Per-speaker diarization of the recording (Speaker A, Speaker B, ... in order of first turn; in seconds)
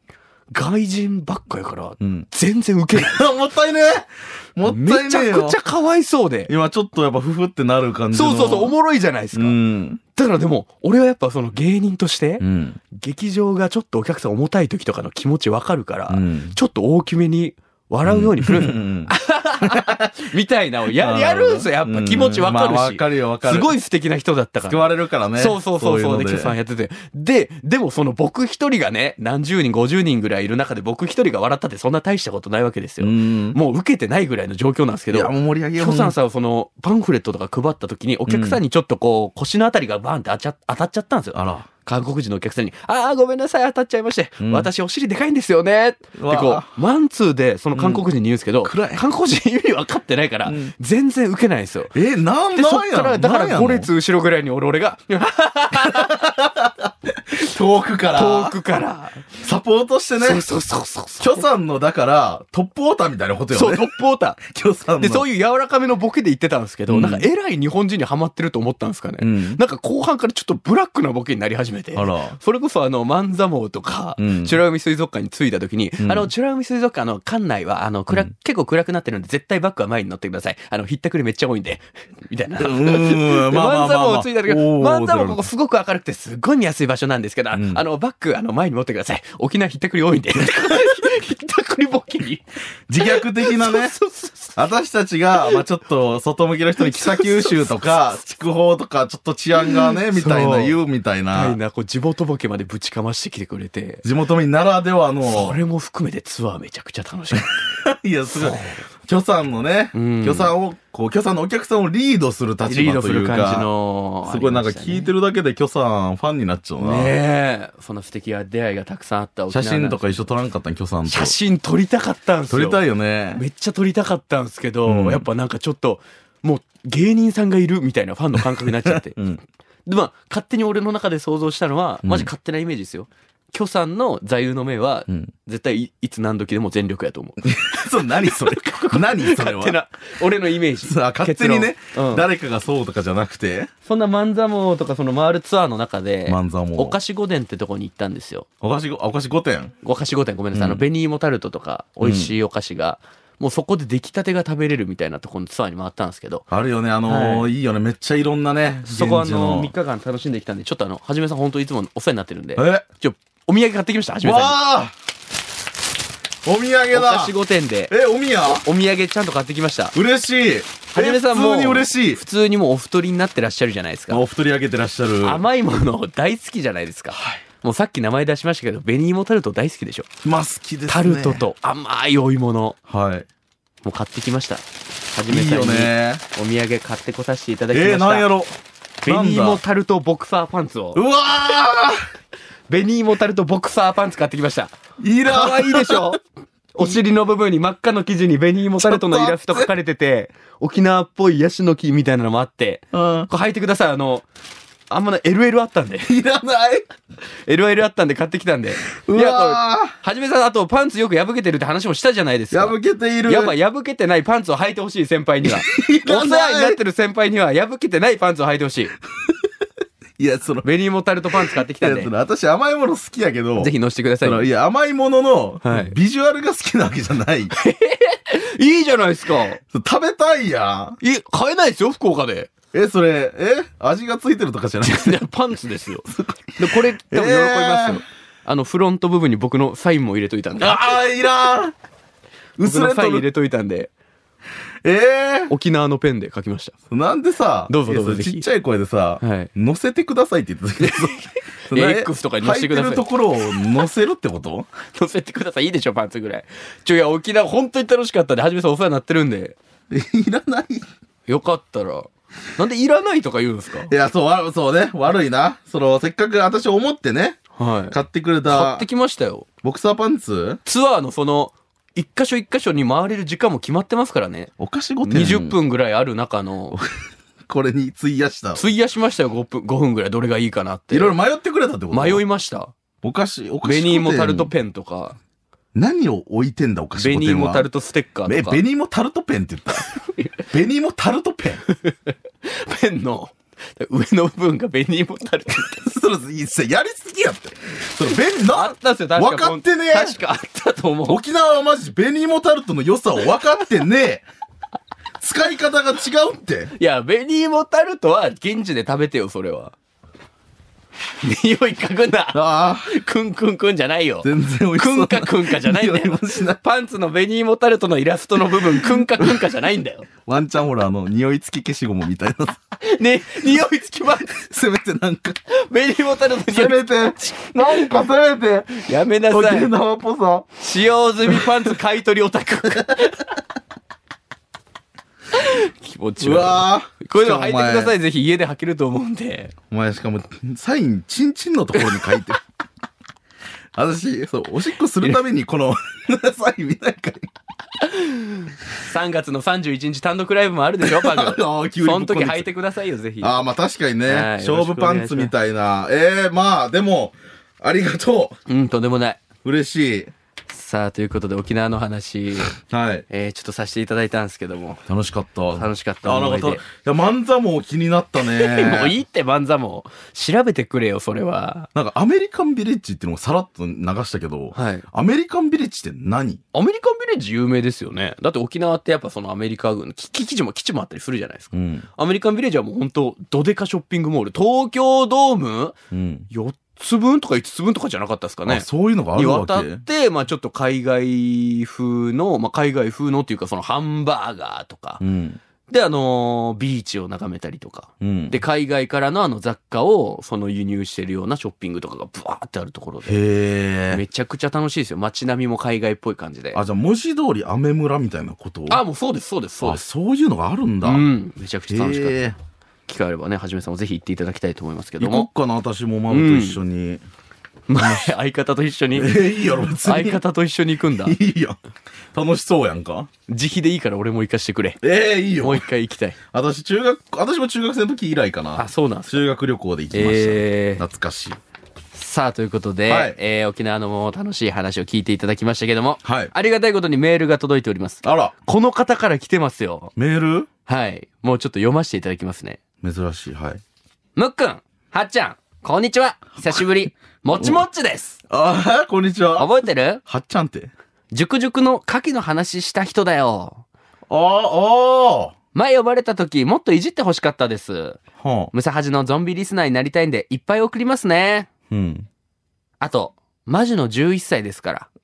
Speaker A: 0.5-3.3, 4.6-6.5, 8.1-9.6, 10.1-51.9, 52.5-56.2, 58.1-59.3, 60.2-61.5, 63.5-64.4, 65.0-92.5, 93.0-94.6, 96.8-97.9, 99.6-100.8, 101.3-104.0, 105.2-107.7, 108.3-108.8, 109.9-110.5, 112.7-115.1, 116.8-120.2, 121.0-122.8, 123.3-129.2, 129.8-142.2, 143.8-148.4, 149.8-156.4, 157.1-157.5, 158.8-164.6, 166.9-167.9, 168.4-169.9, 170.9-174.2, 175.2-180.1, 180.9-182.8, 183.8-188.3, 189.0-191.0, 192.7-194.7, 195.2-196.2, 196.7-204.2, 204.9-206.1, 207.4-212.8, 213.3-218.9, 220.6-222.1, 223.6-224.5, 225.6-225.9, 227.5-229.6, 231.0-232.5, 234.8-236.1, 236.6-241.0, 242.6-243.9, 245.5-246.7, 247.7-248.4, 249.2-249.5, 250.8-253.1, 254.9-259.6, 261.3-263.9, 267.6-269.5, 270.6-274.5, 275.0-276.8, 278.6-281.2, 281.9-282.7, 283.6-285.2, 287.0-288.6, 289.9-290.4, 291.7-295.9, 298.4-301.2, 306.8-309.7, 311.2-320.1, 322.8-324.4, 325.5-328.1, 328.7-329.7, 330.6-333.3, 335.3-339.5, 341.7-342.3, 347.8-353.4, 354.1-355.3, 358.5-359.2, 360.5-362.6, 363.1-364.8, 365.5-366.6, 368.2-371.7, 374.5-374.8, 376.5-385.8, 386.3-395.0, 395.7-403.2, 403.9-406.6, 408.7-409.8, 410.8-412.2, 412.9-415.3, 416.1-416.6, 417.7-421.1, 423.3-424.8, 425.4-426.2, 428.6-429.2, 429.9-430.8, 431.9-439.9, 440.7-442.6, 444.1-448.2, 449.4-450.0, 451.1-453.6, 455.5-458.0, 458.5-461.5, 462.8-464.9
Speaker B: 2.0-2.3, 2.9-5.6, 6.5-8.7, 9.3-10.0, 12.4-12.8, 16.1-16.6, 18.0-20.1, 20.9-23.7, 24.7-26.5, 33.0-33.6, 35.1-36.1, 38.3-38.6, 41.3-41.7, 44.4-44.7, 46.2-46.7, 47.7-48.0, 48.6-49.0, 50.5-50.7, 51.9-53.9, 55.8-58.6, 59.4-60.4, 61.2-65.2, 66.9-67.2, 69.2-69.6, 71.9-72.4, 74.2-74.6, 76.0-76.3, 82.6-85.5, 87.5-87.8, 92.9-93.9, 94.5-101.6, 104.0-105.6, 107.3-113.7, 114.2-117.2, 119.5-121.3, 122.5-123.4, 124.8-125.2, 128.8-129.4, 132.0-132.3, 137.4-139.8, 140.8-143.7, 146.3-146.9, 148.6-149.7, 150.5-150.8, 152.0-152.3, 156.5-159.7, 162.6-162.8, 164.2-164.9, 166.4-167.3, 167.9-168.6, 169.9-172.2, 174.1-175.4, 177.1-177.4, 180.2-181.4, 182.9-183.3, 185.3-186.2, 187.7-188.5, 189.1-189.6, 190.9-192.0, 195.0-196.2, 198.8-199.7, 202.9-203.3, 206.1-206.8, 209.1-209.9, 212.5-213.5, 215.4-216.8, 220.2-220.7, 221.5-227.5, 229.7-231.0, 232.7-235.2, 236.1-238.0, 240.6-241.7, 242.6-243.2, 244.8-245.5, 246.9-254.7, 259.9-260.8, 263.9-268.9, 269.6-270.6, 274.6-275.6, 277.5-278.6, 280.9-282.2, 283.0-284.5, 285.7-287.7, 288.2-289.9, 290.5-291.6, 295.8-300.2, 301.1-304.2, 305.2-306.7, 312.3-312.9, 314.2-316.6, 318.5-319.4, 320.2-322.6, 324.3-325.4, 326.5-330.6, 331.2-331.5, 336.2-337.9, 339.7-342.4, 343.7-347.3, 350.8-352.5, 353.2-358.3, 359.4-360.1, 362.6-363.0, 364.9-368.9, 371.7-376.4, 381.5-381.9, 385.9-386.3, 388.4-389.8, 395.0-395.4, 398.0-398.4, 403.0-404.0, 406.5-408.8, 409.6-411.0, 411.7-412.4, 415.0-417.0, 417.8-418.1, 418.9-420.2, 421.0-421.6, 422.1-423.1, 424.8-425.6, 426.3-431.4, 432.9-433.2, 436.0-436.3, 438.0-438.3, 439.9-440.5, 442.8-443.6, 447.3-447.6, 448.3-449.5, 450.0-450.7, 454.1-455.3, 458.2-458.5, 461.7-462.1